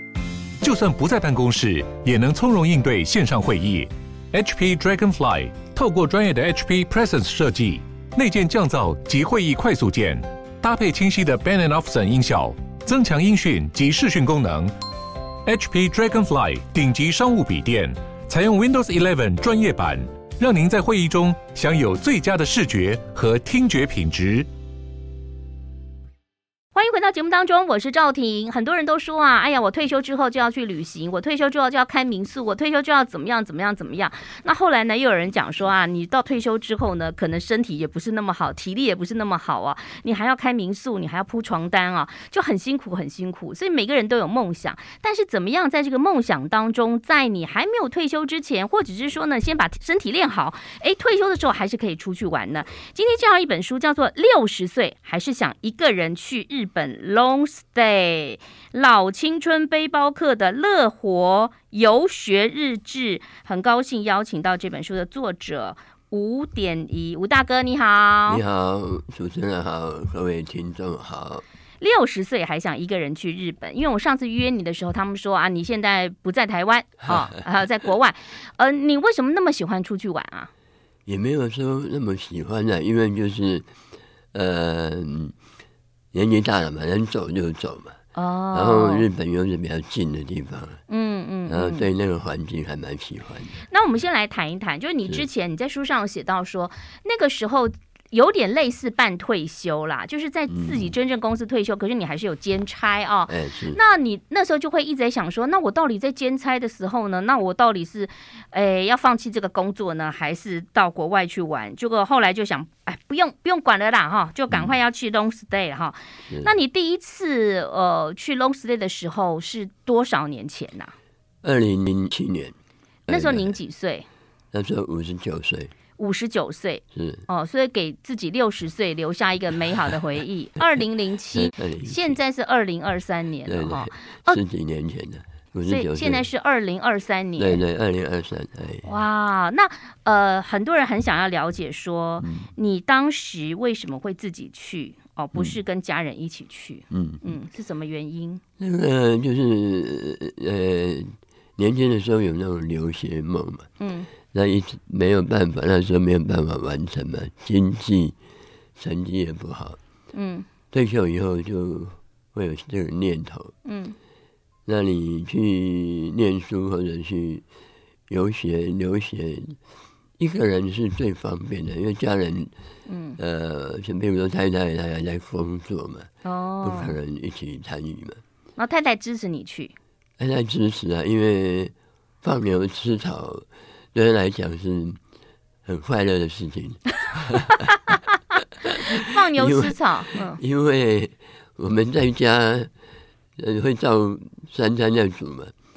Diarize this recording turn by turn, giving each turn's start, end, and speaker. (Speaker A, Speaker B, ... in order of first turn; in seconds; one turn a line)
Speaker A: 0.6-14.7
Speaker A: 15.4-24.5
Speaker B: 26.7-68.4
Speaker C: 68.3-71.4
Speaker B: 71.8-80.5
Speaker C: 81.0-83.7
Speaker C: 84.3-85.3
Speaker C: 86.1-88.0
Speaker B: 88.1-89.0
Speaker C: 88.5-90.8
Speaker B: 90.9-91.9
Speaker C: 91.5-93.6
Speaker B: 93.6-120.9
Speaker C: 100.5-100.9
Speaker C: 103.3-103.8
Speaker C: 121.4-122.5
Speaker C: 123.1-123.5
Speaker B: 123.1-124.1
Speaker C: 124.5-125.7
Speaker B: 126.0-134.4
Speaker C: 126.9-127.2
Speaker C: 131.3-132.2
Speaker C: 133.4-136.2
Speaker B: 135.7-137.6
Speaker C: 137.4-138.9
Speaker B: 138.8-148.4
Speaker C: 142.2-142.5
Speaker C: 146.9-147.2
Speaker C: 148.6-153.7
Speaker B: 153.8-154.1
Speaker C: 154.3-158.2
Speaker C: 158.8-159.8
Speaker B: 160.1-160.5
Speaker C: 160.7-163.5
Speaker B: 163.6-163.9
Speaker C: 164.7-167.4
Speaker C: 168.1-169.6
Speaker C: 170.2-172.5
Speaker B: 172.8-173.2
Speaker C: 173.2-176.1
Speaker B: 176.2-176.9
Speaker C: 176.6-178.2
Speaker B: 178.6-179.8
Speaker C: 180.2-185.0
Speaker C: 185.7-187.7
Speaker C: 188.6-192.7
Speaker B: 188.8-190.4
Speaker C: 193.4-195.5